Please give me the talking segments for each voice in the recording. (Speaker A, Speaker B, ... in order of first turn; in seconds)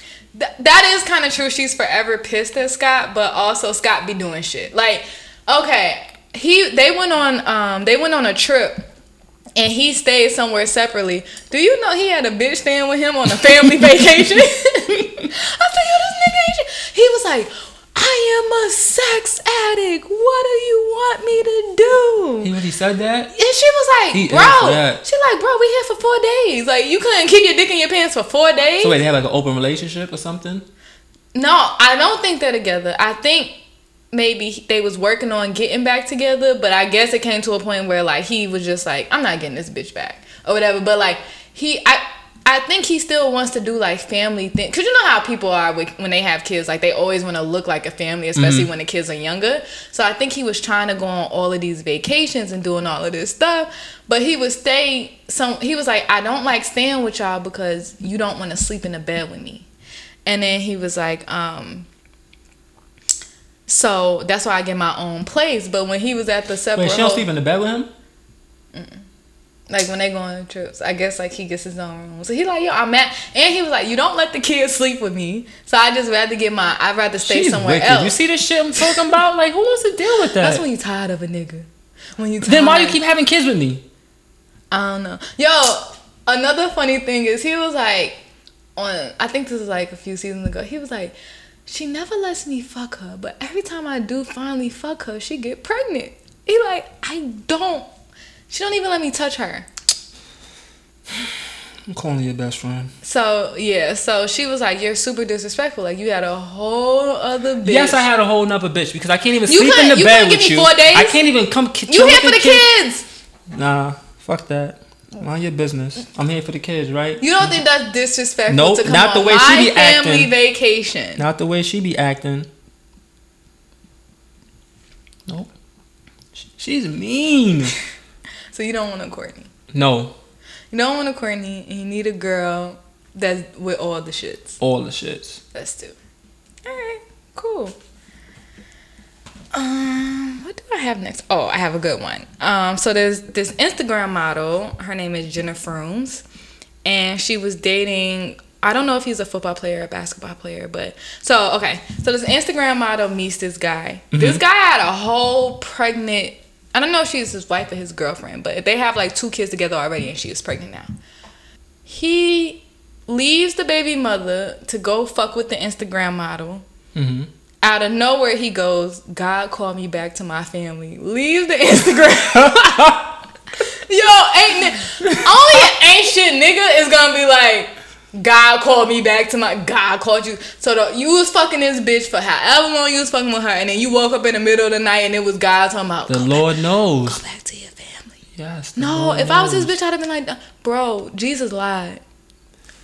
Speaker A: 0.3-8.8, 9.6-22.5, 23.3-29.0, 31.3-33.5, 34.1-59.7, 60.2-61.9, 63.7-67.3, 68.7-69.0, 69.7-78.2, 80.4-83.0, 84.7-88.2, 88.8-91.1, 91.7-97.9, 98.5-99.7, 103.0-108.0, 109.5-111.2, 111.9-113.0, 117.2-121.2, 128.5-129.5, 130.7-134.6, 135.5-135.9, 136.6-137.8, 139.5-146.2, 146.8-160.9, 161.8-166.6, 167.6-173.0, 173.7-186.5, 187.0-188.2, 188.8-192.0
Speaker B: 22.4-23.3, 24.1-25.0, 28.8-30.6, 48.4-48.7, 66.7-67.9, 77.2-80.6, 82.4-83.8, 101.9-102.9, 107.6-112.7, 113.5-117.5, 118.5-120.3, 121.2-122.5, 126.3-127.7, 129.7-130.1, 134.6-135.4, 154.1-154.4, 166.9-167.3, 172.3-173.1, 175.0-175.6, 186.1-187.2, 188.4-189.7